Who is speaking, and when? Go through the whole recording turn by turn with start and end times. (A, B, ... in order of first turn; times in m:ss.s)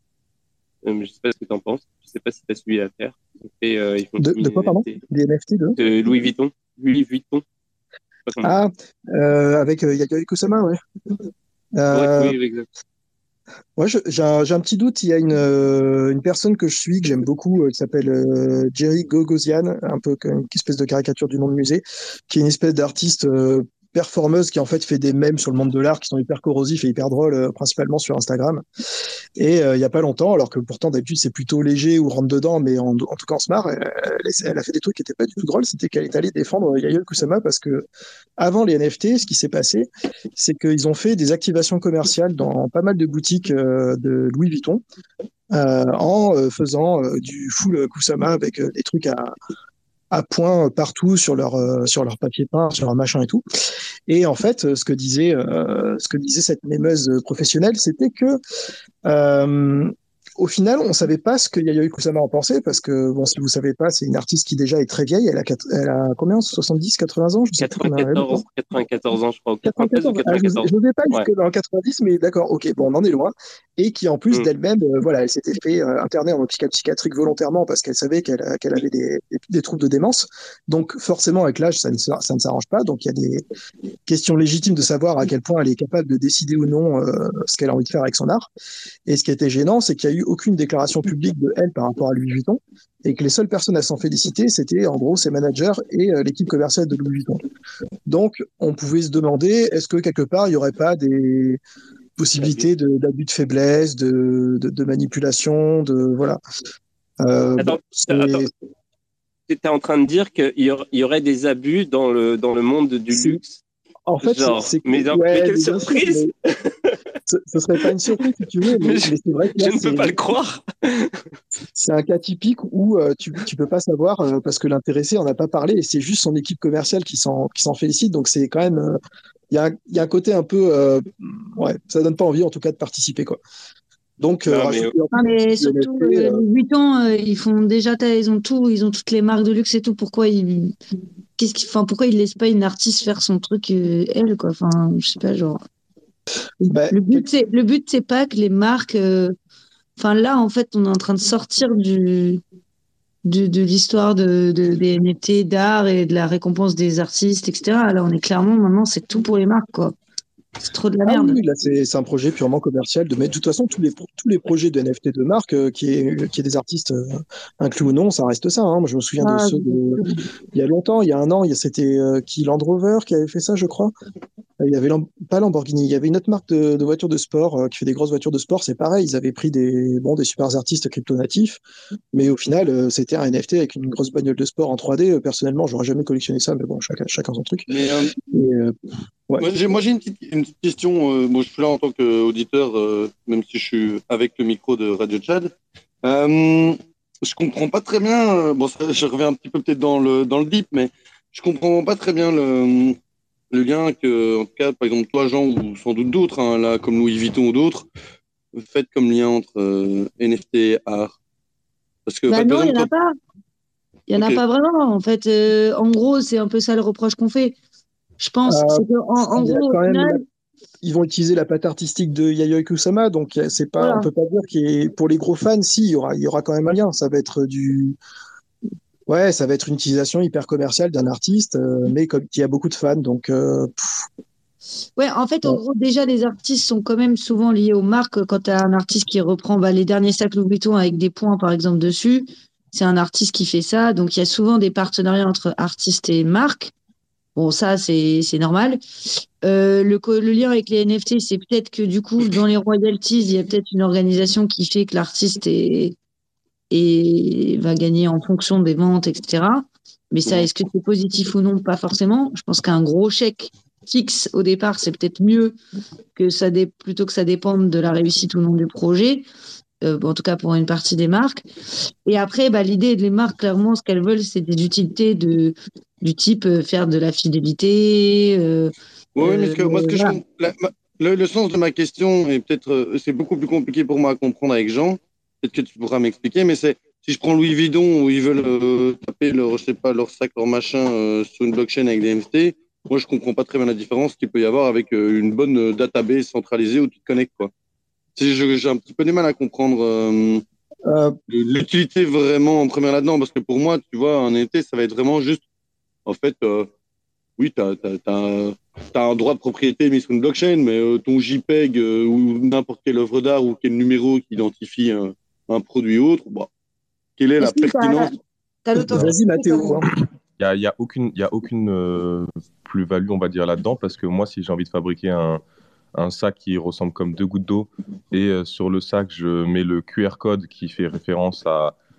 0:00.8-0:05.0 A
0:04.2-0:05.8 B
0:05.8-0:07.4 A
0:08.2-0:08.5 A
0:08.4-0:10.8 B
0:11.8-0:12.4 B
0:11.9-0:12.7 A
0:13.8-0:28.6 B
0:29.4-0:37.9 B
0:38.4-0:44.8 B
0:45.5-0:49.3 B
0:50.1-0:53.4 B
0:54.1-0:58.4 B
0:59.0-1:08.4 B
1:07.6-1:11.3 A
1:09.6-1:23.4 B
1:24.0-1:28.5 B
1:29.0-1:37.4 B
1:38.0-1:41.6 B
1:42.2-1:46.4 B
1:47.2-1:48.5 B
1:47.6-1:48.4 A
1:49.5-1:53.6 A
1:53.1-1:53.4 B
1:54.0-1:56.3 B
1:54.2-1:57.0 A
1:57.3-2:00.1 B
1:58.7-2:01.2 A
2:01.7-2:09.0 B
2:09.5-2:13.4 B
2:14.2-2:16.4 B
2:14.4-2:14.9 A
2:15.1-2:20.8 C
2:21.4-2:25.6 C
2:26.7-2:27.3 B
2:26.7-2:29.4 C
2:30.0-2:32.4 C
2:33.2-2:39.9 C
2:40.6-2:41.4 C
2:41.0-2:53.9 B
2:49.2-2:50.2 C
2:54.6-3:01.6 B
3:02.1-3:07.7 B
3:07.7-3:08.1 D
3:08.2-3:08.8 B
3:09.4-3:23.0 D
3:23.5-3:27.9 D
3:28.6-3:31.1 D
3:32.1-3:32.9 D
3:32.3-3:33.1 C
3:34.1-3:37.6 C
3:38.2-3:40.2 C
3:38.4-3:40.2 B
3:40.8-3:48.0 B
3:43.8-3:44.1 C
3:49.1-3:54.1 B
3:55.0-4:06.7 C
4:07.4-4:08.8 C
4:09.4-4:15.9 C
4:16.7-4:25.6 C
4:26.2-4:29.2 C
4:29.8-4:31.5 C
4:32.0-4:40.2 C
4:39.2-4:57.5 D
4:58.2-5:00.4 D
5:00.9-5:01.1 B
5:01.3-5:05.4 D
5:06.0-5:06.7 D
5:07.4-5:16.5 D
5:17.2-5:18.1 D
5:17.4-5:18.1 C
5:18.6-5:19.8 C
5:18.7-5:19.9 B
5:20.4-5:25.4 E
5:25.9-5:31.8 E